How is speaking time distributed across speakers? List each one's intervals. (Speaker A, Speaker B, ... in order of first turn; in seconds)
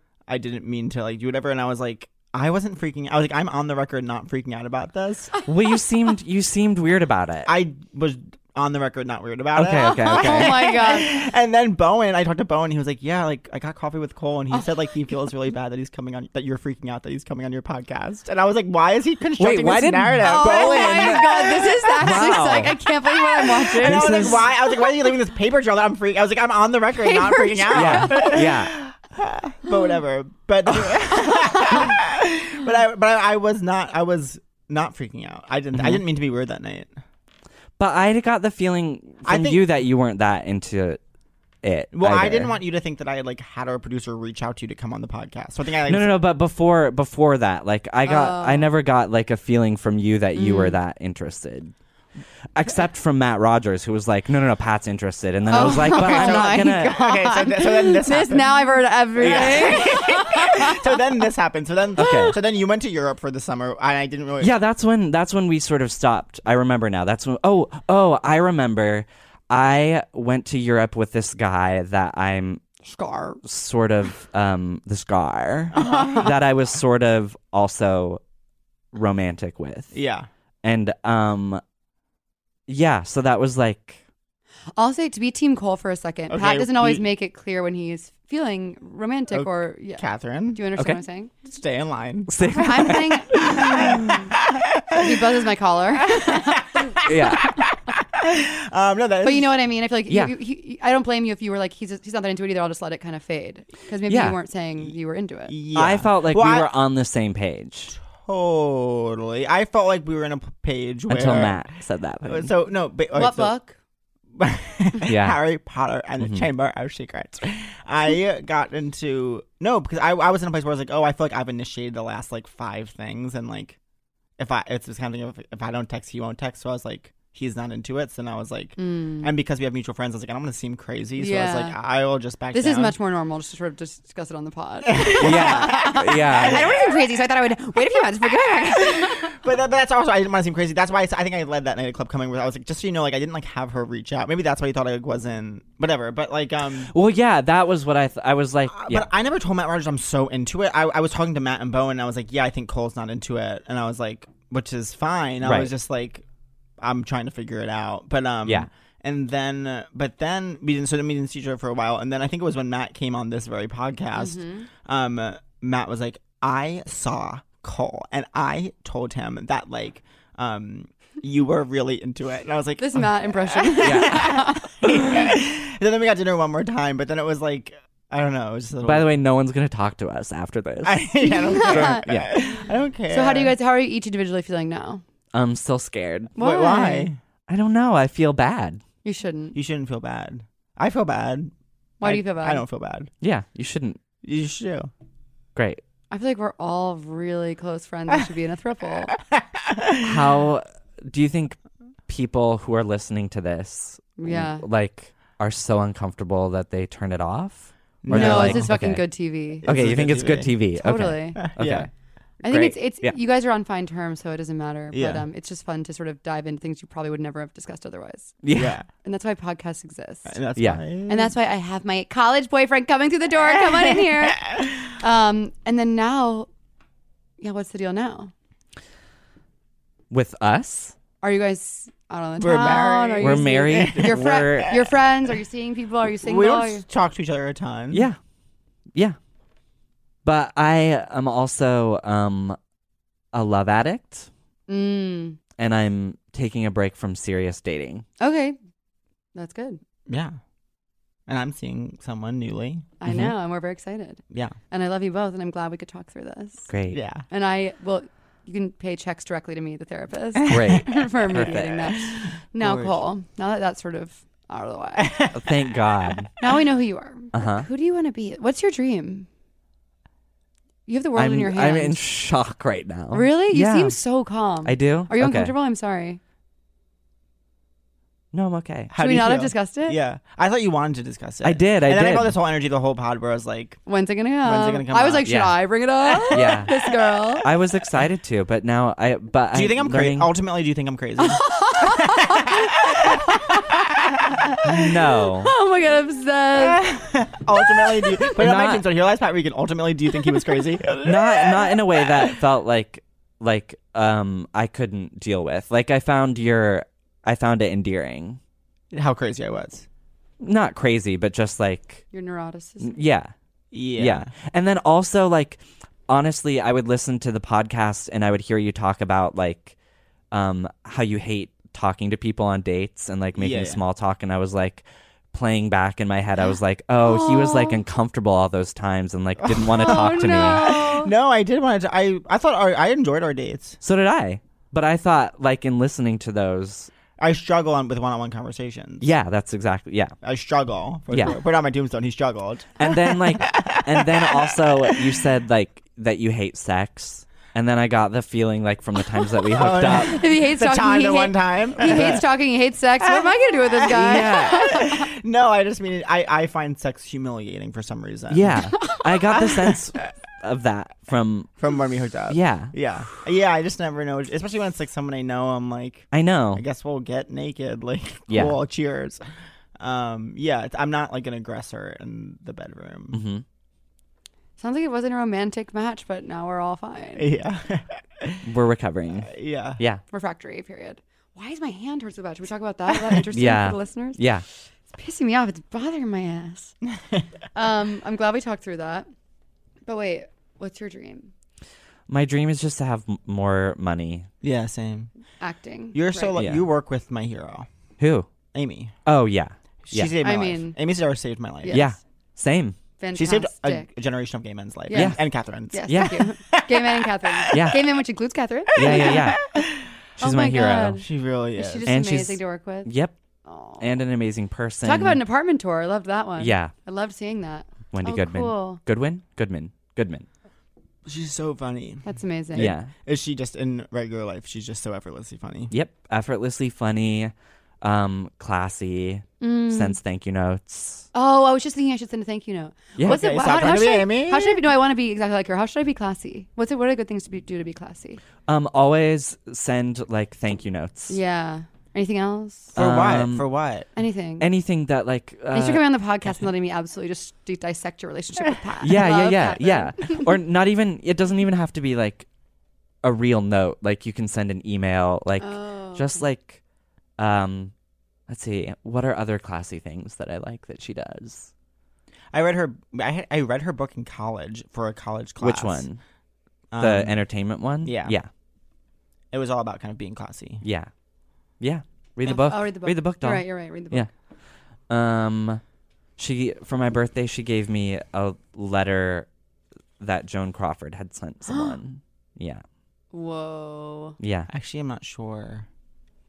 Speaker A: 0.3-5.3, 7.4-22.3, 23.4-36.9, 39.2-39.6, 41.9-46.1, 55.5-58.5, 59.1-64.5, 75.8-76.3, 79.9-80.3, 86.3-87.0, 89.3-90.6, 91.4-95.2, 96.0-99.5, 105.5-106.7, 108.0-111.6, 112.2-113.5, 114.3-123.8, 124.4-132.9, 134.8-136.9, 138.7-146.9, 148.7-156.2, 156.8-179.1, 180.8-183.5, 186.4-187.2, 189.5-193.1, 194.2-194.9, 199.2-200.2, 208.0-208.7, 209.6-210.6, 211.3-211.9, 214.9-215.2, 218.5-218.9, 220.3-221.3, 223.5-224.8, 232.4-234.8, 236.2-238.1, 250.1-250.4, 251.3-252.9, 254.3-254.6, 256.9-257.2, 260.4-260.8, 262.5-263.0, 265.0-266.2, 278.9-283.8, 284.4-285.3, 286.2-286.7, 289.5-294.8, 296.6-302.3, 308.9-309.9, 313.7-314.3, 323.3-323.8, 329.4-333.8, 337.2-339.1, 340.2-345.2, 349.5-352.2, 353.0-358.6, 361.6-369.2, 369.8-373.2, 377.1-378.4, 379.3-379.8, 394.4-395.1, 395.9-397.7, 398.5-398.9, 399.9-401.8, 403.1-407.7, 408.7-409.7, 411.0-411.9, 421.0-425.7, 433.0-434.6, 442.8-443.9, 462.3-465.9, 466.7-467.1, 467.8-468.1, 469.3-470.6, 484.5-485.7
Speaker B: 5.5-7.5, 9.6-10.8, 19.4-22.8, 23.8-24.4, 27.7-28.7, 35.8-36.0, 37.8-41.0, 41.6-42.6, 45.9-51.7, 52.5-57.0, 62.0-62.4, 64.4-72.7, 73.4-78.2, 78.9-80.0, 80.6-81.6, 82.7-84.0, 92.3-94.1, 97.0-97.6, 104.1-104.3, 105.8-107.9, 111.1-112.5, 115.1-115.4, 116.2-116.5, 135.2-136.8, 146.9-149.1, 155.4-155.7, 173.8-174.3, 178.8-182.3, 185.3-186.3, 187.5-188.8, 193.2-194.0, 195.6-195.8, 200.0-211.9, 212.4-213.2, 218.4-218.8, 220.6-220.8, 230.1-230.9, 233.2-234.8, 237.9-238.2, 240.2-242.6, 243.3-244.3, 245.6-248.0, 253.1-253.3, 256.7-257.0, 260.5-261.9, 265.3-266.3, 267.3-267.7, 271.1-274.0, 274.6-275.5, 278.3-278.9, 281.4-282.3, 285.2-285.7, 286.3-286.7, 287.4-290.3, 294.6-295.5, 298.4-298.9, 301.0-308.4, 310.4-312.1, 312.8-313.3, 313.9-319.8, 320.3-330.7, 333.8-336.9, 339.0-340.1, 342.8-350.2, 351.9-352.2, 353.9-354.7, 358.3-361.7, 362.3-362.8, 366.1-366.6, 368.3-368.6, 373.1-373.4, 378.4-380.0, 383.3-384.4, 392.1-394.3, 396.4-396.6, 398.0-398.3, 399.0-400.1, 401.7-402.8, 404.9-405.2, 405.9-406.2, 407.5-407.8, 408.7-409.4, 410.2-411.0, 411.9-413.1, 413.8-415.2, 416.4-416.7, 417.9-420.2, 422.6-422.9, 425.7-431.1, 433.0-433.2, 438.5-441.1, 442.7-443.5, 444.4-445.9, 448.8-452.3, 453.0-456.6, 457.2-457.7, 458.3-461.5, 465.4-466.0, 466.8-468.3, 470.6-470.9, 471.6-474.1, 474.9-475.6, 476.2-479.3, 480.0-482.6, 484.2-484.5
Speaker C: 9.8-11.1, 20.2-24.9, 27.0-28.4, 31.2-31.9, 48.0-48.7, 50.3-50.8, 55.5-60.9, 62.0-62.3, 72.8-73.4, 75.8-76.3, 84.8-91.3, 92.5-94.1, 94.9-97.0, 99.2-105.5, 113.1-113.8, 128.8-129.3, 131.2-131.8, 132.5-139.3, 164.1-164.7, 172.8-174.8, 181.2-182.5, 183.1-185.0, 186.3-187.1, 189.0-189.6, 192.0-192.6, 196.1-199.1, 204.2-204.6, 208.1-209.7, 210.8-211.4, 212.4-218.4, 219.0-220.4, 221.1-226.5, 227.4-228.3, 231.2-236.8, 244.7-245.4, 248.2-248.6, 249.3-249.8, 253.0-256.7, 257.3-265.2, 266.4-269.3, 270.9-272.0, 273.1-276.2, 279.0-280.0, 283.9-287.5, 291.2-294.0, 294.7-296.9, 297.6-298.2, 312.1-313.0, 327.0-327.8, 329.8-331.1, 349.9-355.1, 358.8-359.0, 374.6-377.2, 380.1-386.8, 387.5-389.1, 389.9-391.3, 395.4-396.4, 400.2-400.8, 401.6-402.0, 403.0-403.9, 404.9-409.2, 410.2-412.9, 413.4-413.9, 414.8-418.8, 422.0-422.7, 429.4-430.0, 431.1-438.2, 441.1-442.8, 443.9-444.5, 445.5-450.3, 455.4-456.2, 472.2-474.1, 481.5-481.7, 483.1-484.2